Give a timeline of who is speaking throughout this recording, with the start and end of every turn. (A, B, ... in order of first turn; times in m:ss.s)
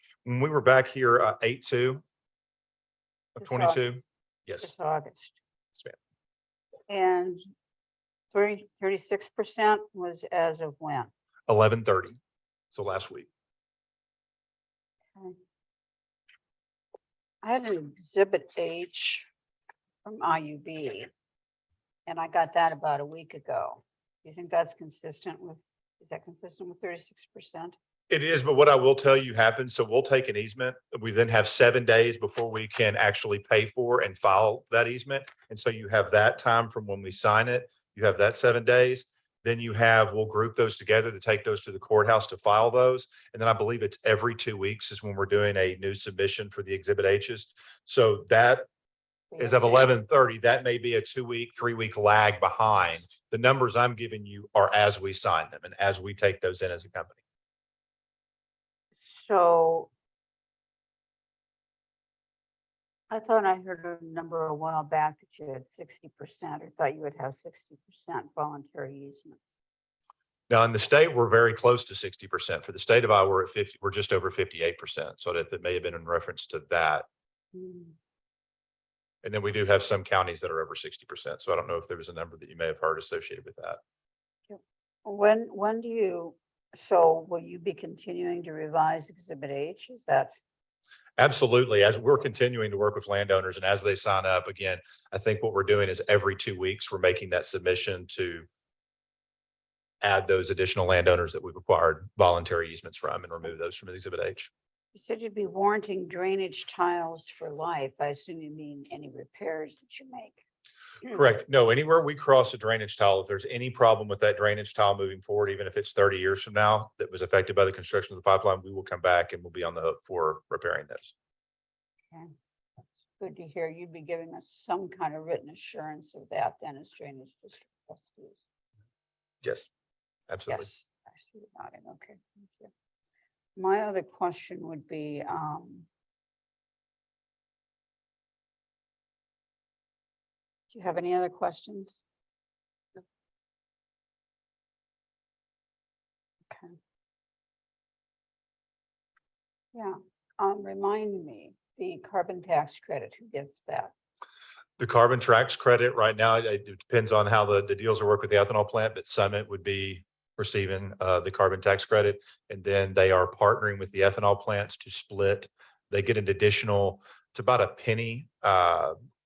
0:00.2-0:02.0 A
0:03.4-0:04.7 A
0:03.4-0:03.8 B
0:04.6-0:05.4 B
0:06.9-0:07.4 B
0:08.3-0:11.1 B
0:11.5-0:12.2 A
0:12.7-0:13.3 A
0:17.4-0:19.3 B
0:20.0-0:21.1 B
0:22.1-0:27.8 B
0:28.1-0:48.7 A
0:49.3-0:49.9 B
0:49.4-0:57.2 A
0:58.9-0:59.9 B
1:03.1-1:09.6 B
1:10.5-1:17.1 A
1:17.5-1:18.0 B
1:19.2-1:23.8 A
1:24.5-1:30.4 B
1:31.2-1:38.5 A
1:40.0-1:44.5 A
1:44.9-1:50.4 B
1:51.1-2:01.1 A
2:03.2-2:08.4 B
2:09.4-2:09.7 A
2:10.3-2:10.7 A
2:10.5-2:12.7 B
2:13.6-2:15.9 B
2:20.7-2:22.0 B
2:26.5-2:26.8 B
2:29.7-2:33.9 B
2:34.8-2:49.0 A